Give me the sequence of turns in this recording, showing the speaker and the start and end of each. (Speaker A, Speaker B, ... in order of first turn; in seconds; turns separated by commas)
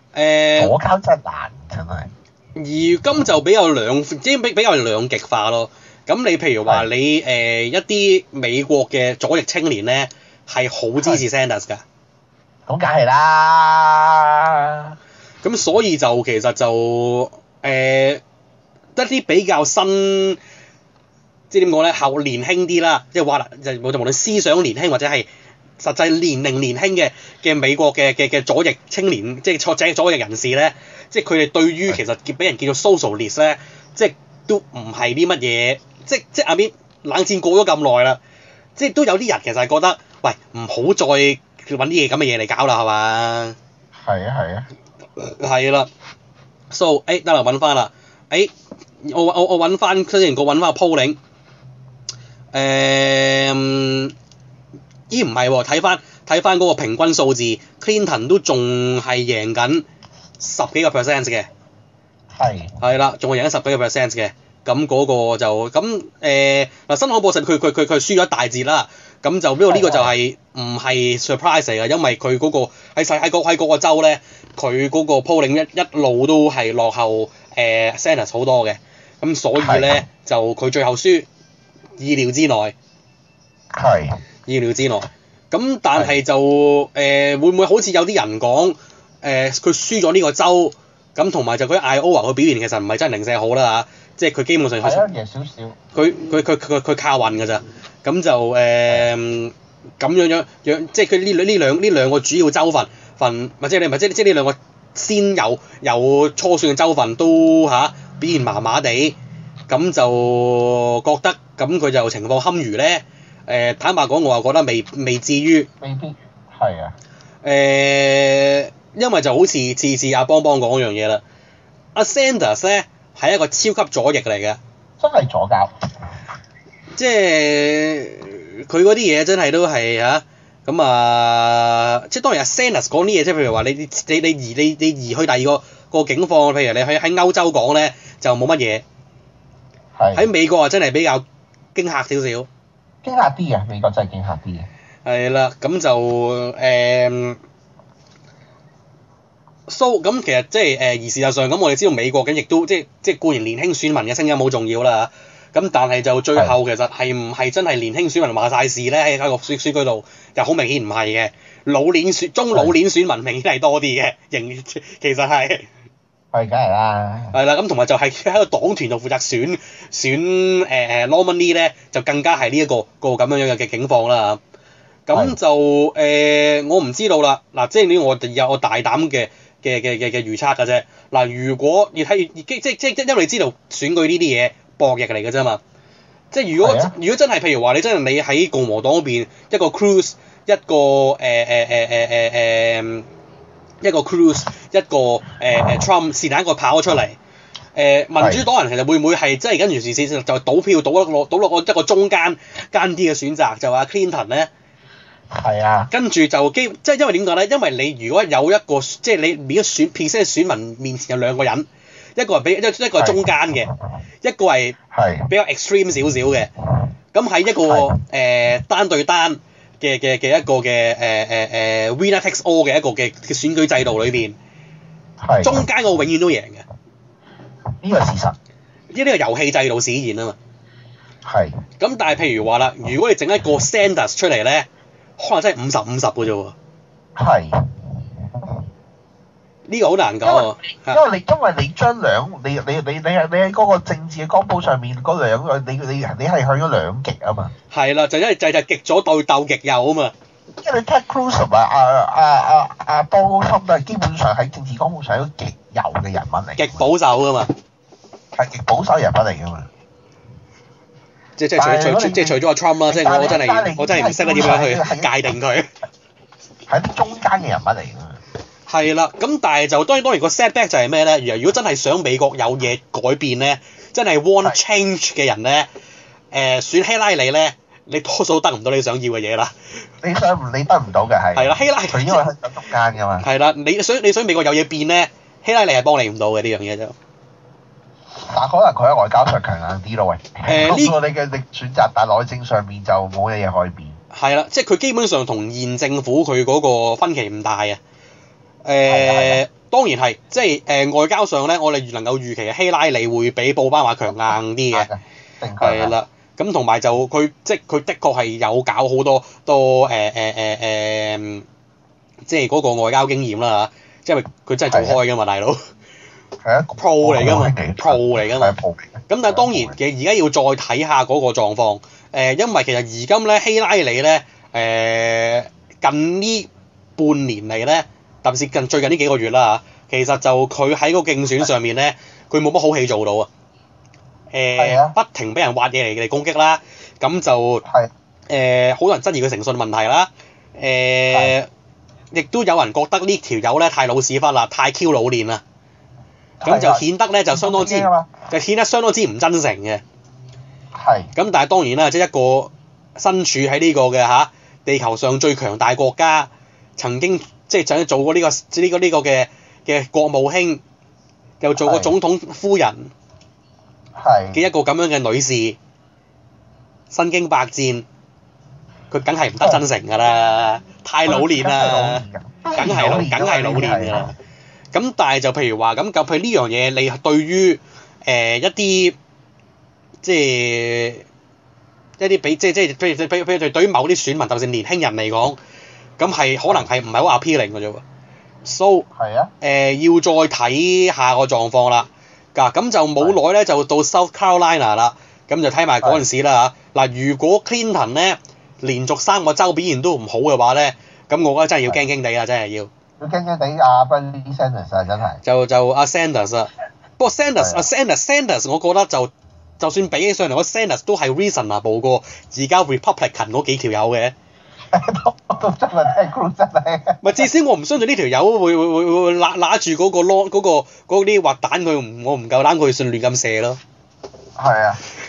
Speaker A: 0.1-0.8, Speaker B: 0.6-2.1, Speaker A: 2.6-11.8, Speaker B: 11.0-11.2, Speaker B: 12.7-15.0, Speaker A: 15.4-18.2, Speaker A: 19.0-20.4, Speaker A: 21.5-25.3, Speaker A: 25.8-38.2, Speaker A: 38.8-43.6, Speaker B: 44.0-44.7, Speaker A: 45.2-45.9, Speaker A: 46.7-48.5, Speaker A: 49.0-51.2, Speaker A: 52.5-54.1, Speaker A: 55.1-59.9, Speaker A: 60.4-61.5, Speaker B: 62.3-62.8, Speaker A: 62.8-81.3, Speaker B: 69.7-70.1, Speaker B: 79.6-80.0, Speaker A: 82.0-82.8, Speaker B: 83.7-84.2, Speaker A: 84.5-95.1, Speaker B: 94.8-95.8, Speaker A: 95.9-109.2, Speaker A: 109.7-115.7, Speaker B: 115.8-117.0, Speaker A: 117.4-121.2, Speaker A: 122.0-124.6, Speaker B: 125.0-125.8, Speaker A: 127.0-138.8, Speaker B: 140.0-140.3, Speaker A: 140.1-141.2, Speaker A: 141.8-142.5, Speaker B: 143.0-144.7, Speaker A: 145.1-147.4, Speaker A: 149.7-165.7, Speaker B: 166.3-167.3, Speaker A: 167.3-174.4, Speaker A: 175.1-185.6, Speaker A: 186.3-193.1, Speaker B: 186.6-186.9, Speaker A: 193.8-197.2, Speaker A: 197.8-204.5, Speaker B: 198.2-198.5, Speaker B: 205.3-205.9, Speaker A: 205.9-213.7, Speaker B: 213.0-213.3, Speaker A: 214.2-214.8, Speaker B: 214.9-215.3, Speaker A: 215.3-216.5, Speaker A: 217.1-224.4, Speaker B: 217.7-217.9, Speaker B: 225.2-225.7, Speaker A: 225.4-226.7, Speaker B: 227.8-228.3, Speaker A: 228.9-230.4, Speaker B: 231.2-231.6, Speaker A: 231.8-236.6, Speaker B: 237.2-238.5, Speaker A: 239.7-241.0, Speaker B: 240.2-247.5, Speaker A: 247.7-250.1, Speaker B: 250.6-256.9, Speaker A: 256.6-257.5, Speaker B: 258.3-259.7, Speaker A: 261.4-265.7, Speaker B: 261.6-262.4, Speaker B: 262.9-265.1, Speaker B: 266.7-268.2, Speaker A: 268.7-275.7, Speaker A: 276.3-279.5, Speaker B: 280.0-283.2, Speaker A: 281.4-282.2, Speaker A: 283.2-287.0, Speaker B: 288.2-294.0, Speaker A: 290.5-291.0, Speaker A: 294.1-297.8, Speaker A: 298.6-304.9, Speaker B: 298.9-299.4, Speaker B: 304.3-305.9, Speaker A: 305.6-311.4, Speaker A: 312.3-315.6, Speaker B: 314.7-315.0, Speaker B: 316.4-319.8, Speaker A: 316.8-318.6, Speaker A: 319.1-333.3, Speaker A: 334.3-337.6, Speaker B: 334.6-334.9, Speaker B: 337.6-337.9, Speaker A: 338.3-341.5, Speaker A: 342.1-345.4, Speaker B: 346.4-348.1, Speaker A: 346.4-349.8, Speaker B: 350.8-351.1, Speaker A: 351.1-360.6, Speaker A: 361.4-362.9, Speaker B: 361.6-361.9, Speaker B: 363.9-364.4, Speaker A: 364.3-365.6, Speaker A: 366.9-367.9, Speaker A: 368.9-372.0, Speaker B: 371.1-374.1, Speaker A: 372.5-374.1, Speaker A: 374.7-379.0, Speaker A: 380.0-381.0, Speaker A: 382.0-385.4, Speaker A: 386.0-387.8, Speaker A: 388.4-388.9, Speaker B: 388.9-389.3, Speaker A: 389.4-402.7, Speaker B: 403.0-405.2, Speaker A: 405.2-414.1, Speaker B: 407.4-407.6, Speaker B: 414.7-417.2, Speaker A: 417.0-423.6, Speaker B: 424.4-424.8